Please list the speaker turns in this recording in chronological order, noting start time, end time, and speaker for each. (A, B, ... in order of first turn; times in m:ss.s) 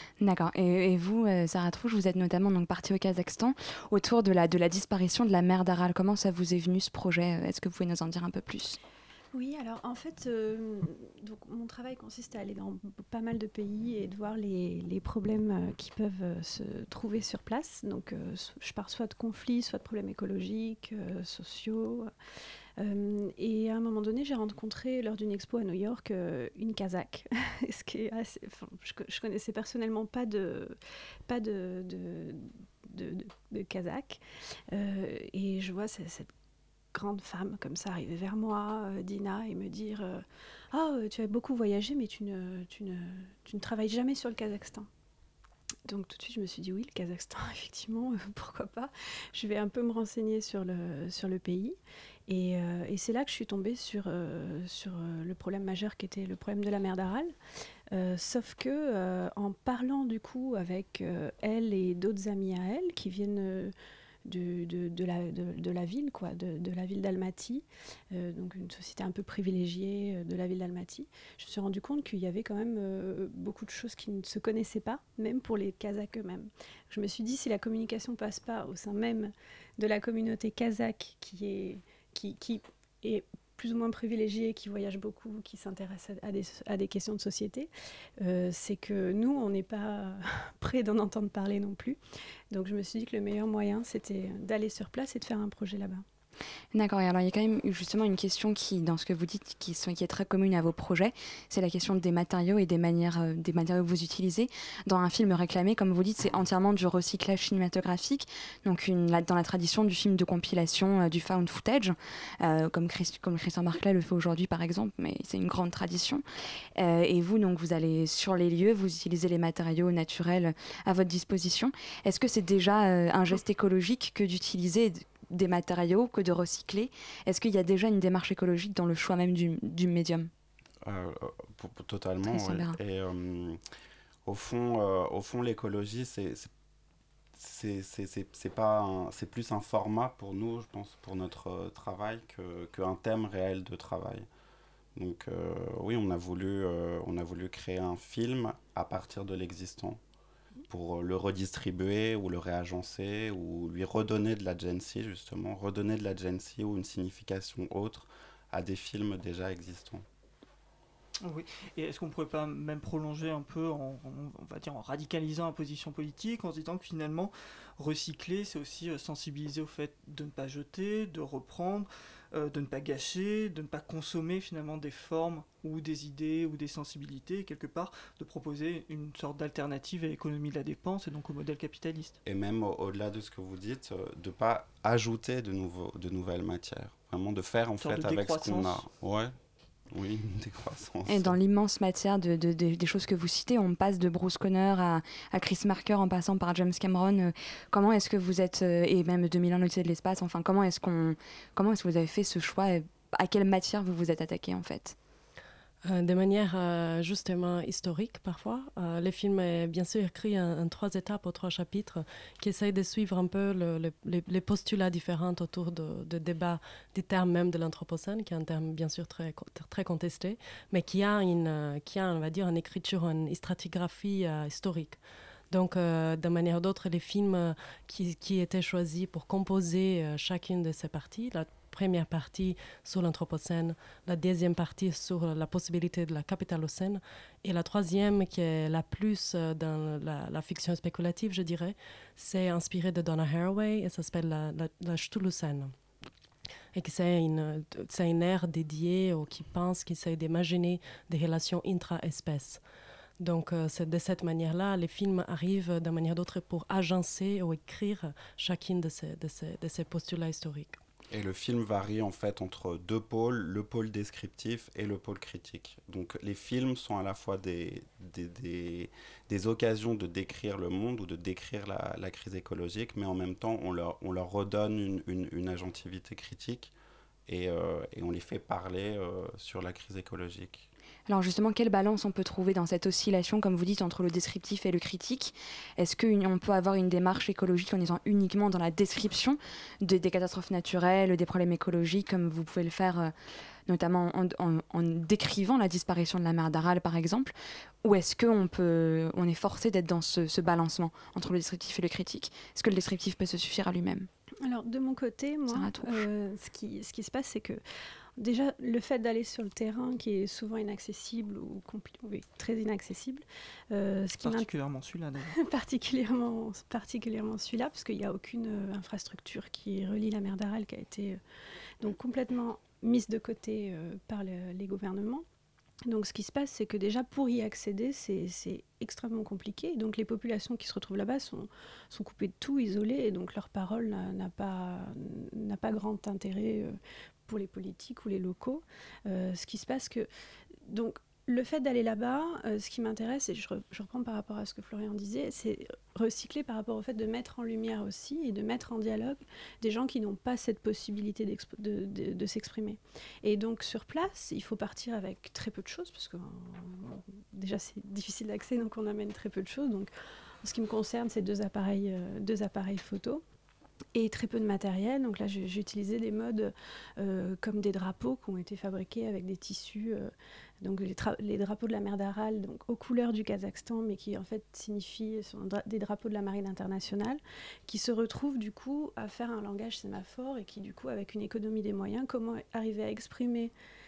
0:00.2-0:08.8 A
0:09.3-0:22.1 B
0:22.8-0:36.3 B
0:36.9-0:44.9 B
0:45.8-0:57.3 B
0:57.9-1:03.7 B
1:04.2-1:32.0 B
1:32.5-1:36.0 B
1:36.7-1:56.2 A
1:56.8-2:10.3 A
2:10.8-2:13.6 C
2:12.3-2:12.8 A
2:14.2-2:16.5 C
2:17.3-2:24.3 C
2:24.9-2:30.0 C
2:30.7-2:40.0 C
2:41.2-3:02.2 D
3:02.2-3:09.3 C
3:07.8-3:08.8 D
3:09.9-3:11.4 C
3:11.1-3:25.0 A
3:25.8-4:05.7 E
4:06.7-4:12.6 E
4:13.2-4:20.8 E
4:21.1-4:36.7 C
4:37.3-4:40.7 C
4:41.1-4:53.1 A
4:53.7-5:04.1 A
5:04.4-5:07.6 B
5:05.5-5:06.1 A
5:08.2-5:14.5 B
5:14.2-5:15.4 D
5:15.3-5:21.2 B
5:21.8-5:25.2 B
5:25.9-5:40.1 B
5:40.6-6:03.2 B
6:03.9-6:23.5 B